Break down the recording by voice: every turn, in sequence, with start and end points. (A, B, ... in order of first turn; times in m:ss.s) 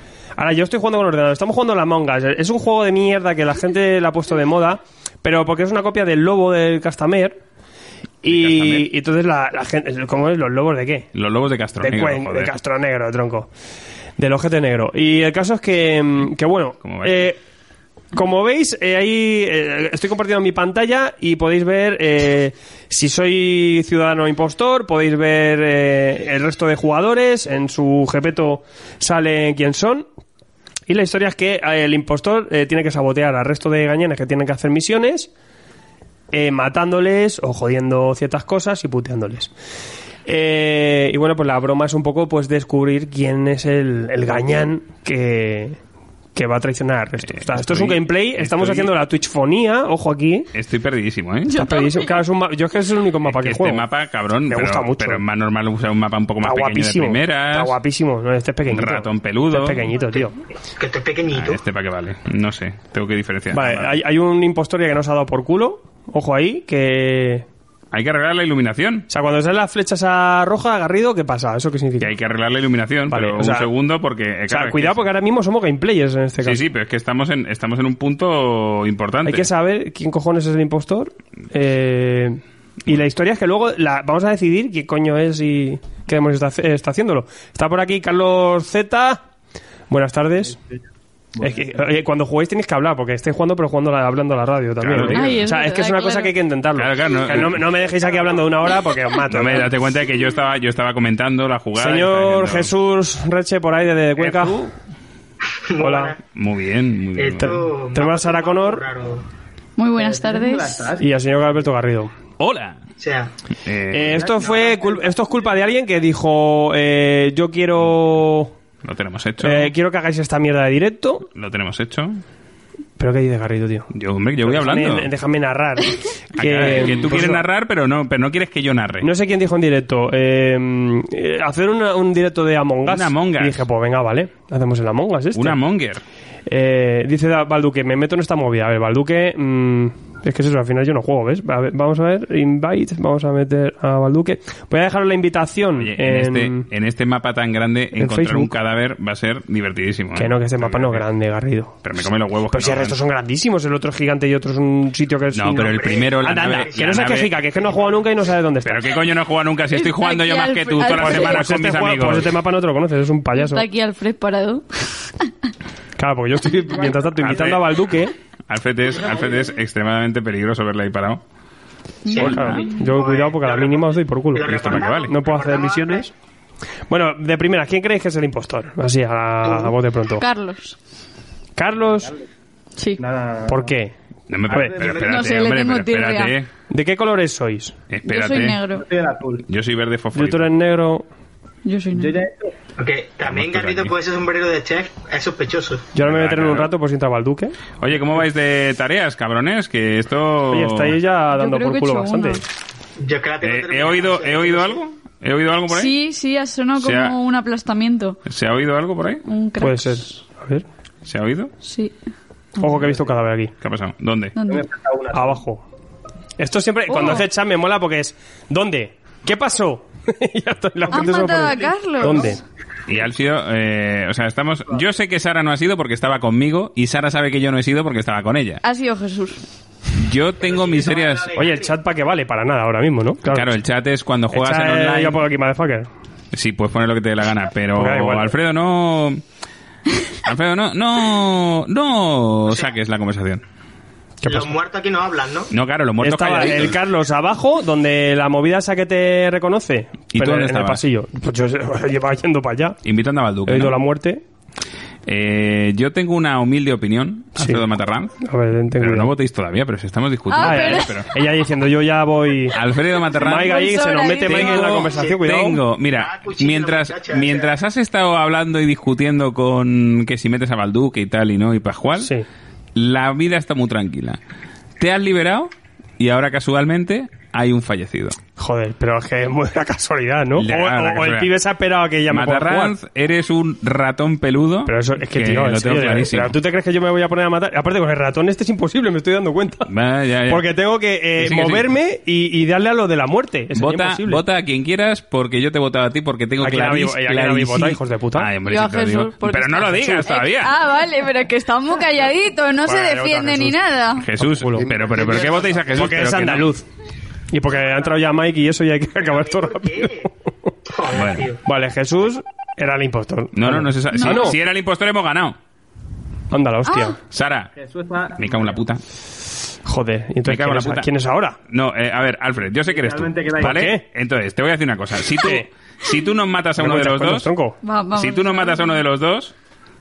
0:00.4-0:07.4 A
0:08.2-0:11.1 A
0:08.2-0:08.9 B
0:11.1-0:12.5 B
0:11.8-0:13.5 A
0:14.2-0:17.4 A
0:16.8-0:17.3 B
0:18.1-0:30.0 A
0:30.9-0:35.3 A
0:36.3-0:39.5 A
0:40.2-0:45.8 A
0:46.3-0:50.5 A
0:47.3-0:48.9 B
0:50.5-0:51.6 B
0:51.5-0:53.8 A
0:51.6-0:52.1 C
0:53.2-0:57.8 B
0:54.5-0:55.2 A
0:56.4-1:00.4 A
0:58.7-0:59.9 B
1:00.1-1:01.6 D
1:01.3-1:04.0 B
1:03.5-1:07.4 A
1:07.9-1:09.1 B
1:09.1-1:12.1 A
1:12.0-1:15.0 B
1:13.1-1:13.7 A
1:14.5-1:16.6 A
1:16.4-1:19.5 B
1:19.2-1:29.2 A
1:29.9-1:30.6 A
1:31.4-1:39.7 A
1:34.8-1:35.5 B
1:35.1-1:36.3 C
1:36.8-1:37.7 B
1:39.3-1:42.7 B
1:41.8-1:44.6 A
1:44.2-1:44.7 B
1:45.7-1:46.2 D
1:45.8-1:46.2 A
1:46.3-1:47.6 B
1:47.2-1:49.2 D
1:47.4-1:48.8 A
1:49.8-1:50.9 C
1:49.9-1:51.0 E
1:51.0-1:52.1 A
1:52.4-1:52.8 B
1:53.0-1:53.3 D
1:53.6-1:54.2 B
1:53.9-1:58.5 A
1:54.1-1:55.1 E
1:58.8-1:59.7 B
1:59.4-2:01.3 A
2:01.3-2:02.2 B
2:03.0-2:03.9 A
2:03.9-2:05.1 B
2:04.4-2:07.4 A
2:06.4-2:09.1 B
2:09.0-2:15.6 A
2:12.8-2:13.6 B
2:15.3-2:16.0 B
2:16.5-2:26.7 A
2:25.8-2:31.0 B
2:28.0-2:28.5 A
2:30.1-2:31.7 A
2:31.8-2:33.0 B
2:32.5-2:38.9 A
2:35.3-2:37.3 B
2:35.5-2:38.0 D
2:38.6-2:42.4 B
2:39.7-2:41.5 C
2:40.9-2:43.6 A
2:43.3-2:45.3 C
2:46.0-2:48.1 A
2:47.2-2:47.8 B
2:48.5-2:51.2 B
2:52.1-2:52.6 C
2:52.1-2:52.7 B
2:52.1-2:56.1 D
2:52.1-2:56.1 A
2:54.4-2:55.1 B
2:56.9-3:00.2 A
2:59.4-2:59.7 D
3:00.2-3:00.8 C
3:01.6-3:02.2 A
3:02.8-3:03.0 C
3:03.0-3:03.7 E
3:03.4-3:03.9 A
3:04.3-3:06.5 B
3:04.5-3:04.9 A
3:04.8-3:05.1 D
3:04.9-3:06.4 C
3:06.7-3:07.7 A
3:07.9-3:08.6 B
3:08.0-3:08.9 C
3:08.8-3:09.4 E
3:09.4-3:10.5 B
3:10.1-3:11.0 A
3:11.6-3:12.2 C
3:11.9-3:12.5 E
3:12.8-3:15.8 D
3:13.2-3:13.9 B
3:15.9-3:17.6 A
3:16.0-3:16.7 B
3:17.8-3:21.0 B
3:20.5-3:22.4 A
3:21.3-3:22.4 C
3:23.0-3:24.8 D
3:23.4-3:25.9 B
3:25.7-3:28.2 C
3:26.8-3:27.2 B
3:28.2-3:29.2 B
3:29.2-3:30.1 C
3:29.6-3:30.6 A
3:31.0-3:31.5 B
3:31.6-3:31.9 C
3:32.6-3:33.5 A
3:33.6-3:34.4 B
3:34.3-3:34.7 C
3:34.5-3:35.4 E
3:35.1-3:35.6 A
3:36.4-3:42.4 A
3:36.9-3:37.2 C
3:40.9-3:42.4 C
3:42.9-3:48.6 B
3:48.6-3:49.4 C
3:49.9-3:51.3 B
3:50.4-3:51.7 D
3:51.4-3:53.5 A
3:53.3-3:55.2 B
3:54.3-3:55.9 A
3:56.3-3:59.2 B
3:57.7-3:58.4 A
4:00.2-4:03.4 B
4:02.5-4:02.7 D
4:04.2-4:04.6 A
4:04.2-4:05.5 D
4:05.5-4:06.8 B
4:06.0-4:12.8 A
4:10.1-4:10.8 B
4:12.8-4:13.8 B
4:13.4-4:14.2 A
4:15.0-4:18.2 B
4:17.4-4:17.6 A
4:18.2-4:19.1 A
4:18.8-4:21.1 B
4:20.3-4:21.0 C
4:20.4-4:22.6 A
4:22.5-4:23.6 B
4:23.2-4:24.8 C
4:23.2-4:25.6 A
4:24.2-4:32.1 B
4:24.8-4:25.2 D
4:25.9-4:27.6 D
4:32.0-4:32.2 A
4:32.7-4:34.2 B
4:34.8-4:38.2 B
4:38.4-4:42.7 A
4:40.4-4:41.3 B
4:42.1-4:46.3 B
4:44.6-4:49.7 A
4:49.6-4:50.4 B
4:50.3-4:54.2 A
4:51.2-4:51.7 B
4:53.5-5:00.6 B
4:56.4-4:58.3 A
4:58.4-5:04.0 C
5:02.6-5:03.6 A
5:04.0-5:06.5 B
5:04.2-5:06.6 A
5:04.7-5:06.0 D
5:07.3-5:09.9 A
5:07.5-5:08.0 D
5:09.0-5:10.1 D
5:10.7-5:11.4 D
5:10.9-5:11.3 B
5:11.4-5:14.4 A
5:13.3-5:15.4 B
5:13.9-5:14.3 C
5:16.3-5:17.0 A
5:16.6-5:17.0 C
5:17.1-5:17.5 B
5:17.6-5:18.3 E
5:18.1-5:18.8 B
5:19.6-5:21.4 A
5:20.2-5:20.9 B
5:21.5-5:27.3 B
5:22.6-5:23.6 E
5:23.4-5:23.8 A
5:25.2-5:25.5 A
5:26.6-5:27.6 A
5:27.6-5:28.8 C
5:27.9-5:29.3 B